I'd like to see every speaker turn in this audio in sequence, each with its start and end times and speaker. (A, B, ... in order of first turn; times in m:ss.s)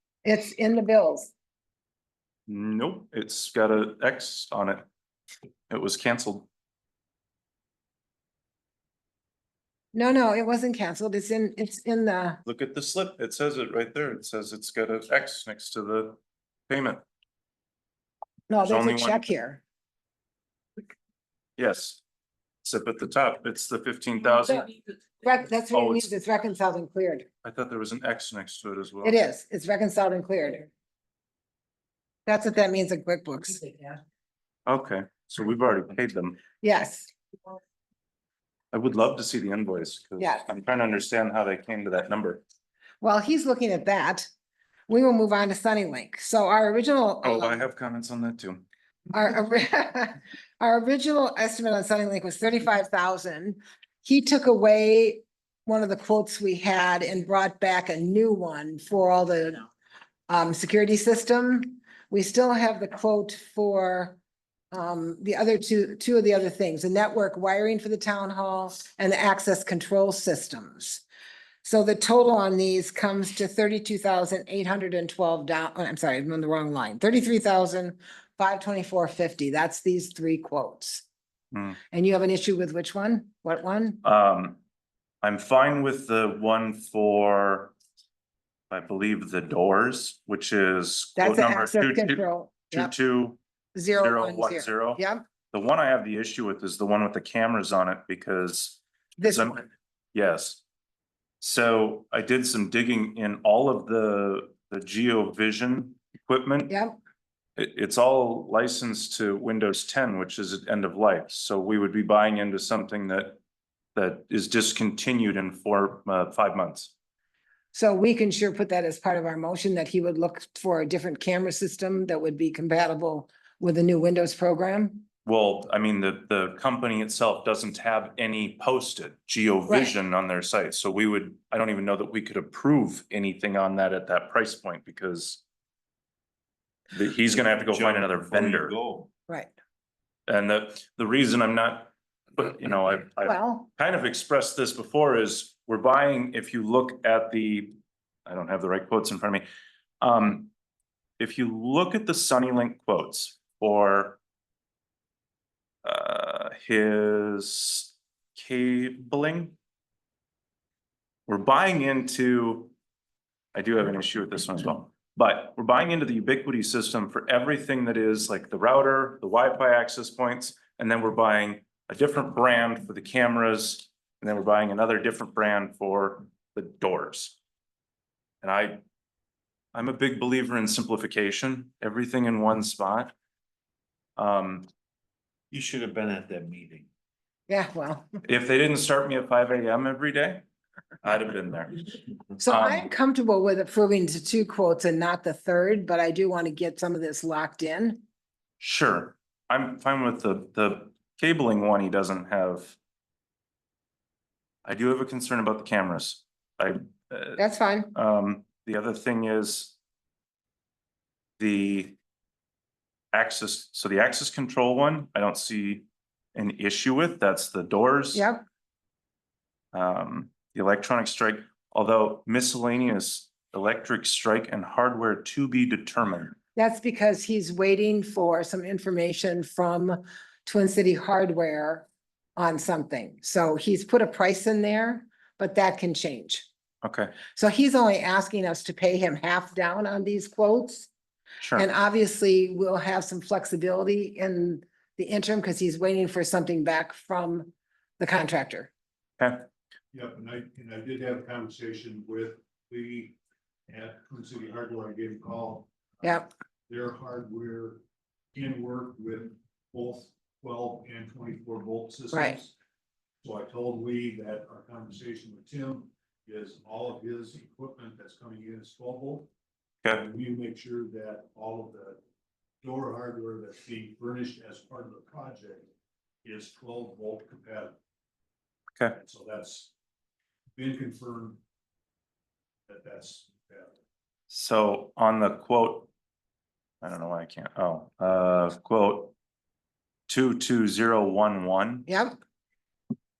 0:00.2-0:01.3 A
0:02.5-0:04.8 B
0:05.7-0:06.5 B
0:09.9-0:12.4 A
0:12.4-0:16.2 B
0:16.7-0:17.0 B
0:18.5-0:19.6 A
0:18.6-0:19.2 B
0:21.6-0:22.0 B
0:22.6-0:24.7 B
0:25.2-0:27.3 A
0:25.7-0:26.1 B
0:27.4-0:29.2 B
0:29.0-0:30.7 A
0:32.2-0:34.0 A
0:34.7-0:36.4 B
0:36.6-0:37.1 A
0:38.7-0:42.4 B
0:40.2-0:40.4 A
0:43.0-0:44.3 A
0:44.9-0:47.6 A
0:47.2-0:48.6 B
0:49.1-0:59.7 A
1:00.3-1:04.2 A
1:04.7-1:11.0 A
1:11.6-1:21.0 A
1:21.5-1:21.8 B
1:21.9-1:24.0 A
1:24.0-1:24.6 B
1:25.2-1:27.7 B
1:28.7-1:33.4 B
1:31.2-1:32.9 A
1:33.7-1:35.2 A
1:34.0-1:35.0 B
1:35.5-1:40.6 B
1:39.2-1:39.6 A
1:41.4-1:46.7 B
1:46.7-1:47.0 A
1:47.6-1:53.4 B
1:53.9-1:56.9 B
1:57.7-2:05.0 A
2:05.2-2:15.4 B
2:09.7-2:09.9 A
2:16.9-2:18.7 B
2:17.6-2:19.1 C
2:19.3-2:19.5 A
2:20.3-2:29.4 B
2:23.2-2:23.7 A
2:30.0-2:30.5 B
2:31.2-2:34.2 B
2:35.8-2:39.6 B
2:41.3-2:42.7 B
2:43.5-2:57.4 B
2:58.4-2:58.8 B
2:59.7-3:03.1 B
3:04.2-3:04.7 B
3:05.5-3:06.9 C
3:07.5-3:08.1 A
3:08.2-3:10.4 B
3:11.0-3:11.8 B
3:12.4-3:12.9 B
3:12.4-3:18.0 A
3:18.6-3:22.8 B
3:24.6-3:27.4 B
3:27.4-3:27.9 A
3:27.9-3:29.8 B
3:31.4-3:32.0 B
3:33.1-3:38.2 B
3:38.1-3:38.4 A
3:39.7-3:46.4 B
3:46.6-3:56.5 A
3:56.8-3:57.2 B
3:57.3-4:00.9 A
4:01.4-4:01.7 B
4:01.6-4:08.7 A
4:09.2-4:09.4 B
4:09.9-4:13.2 D
4:13.7-4:15.7 D
4:16.0-4:16.3 A
4:16.7-4:17.8 D
4:18.3-4:22.5 D
4:22.1-4:22.4 A
4:23.2-4:29.3 D
4:29.9-4:32.0 D
4:32.6-4:35.7 D
4:36.2-4:37.8 D
4:38.9-4:39.7 D
4:40.6-4:41.4 D
4:42.7-4:43.7 D
4:44.3-4:45.9 B
4:46.8-4:49.1 B
4:50.1-4:51.9 B
4:51.9-4:52.2 A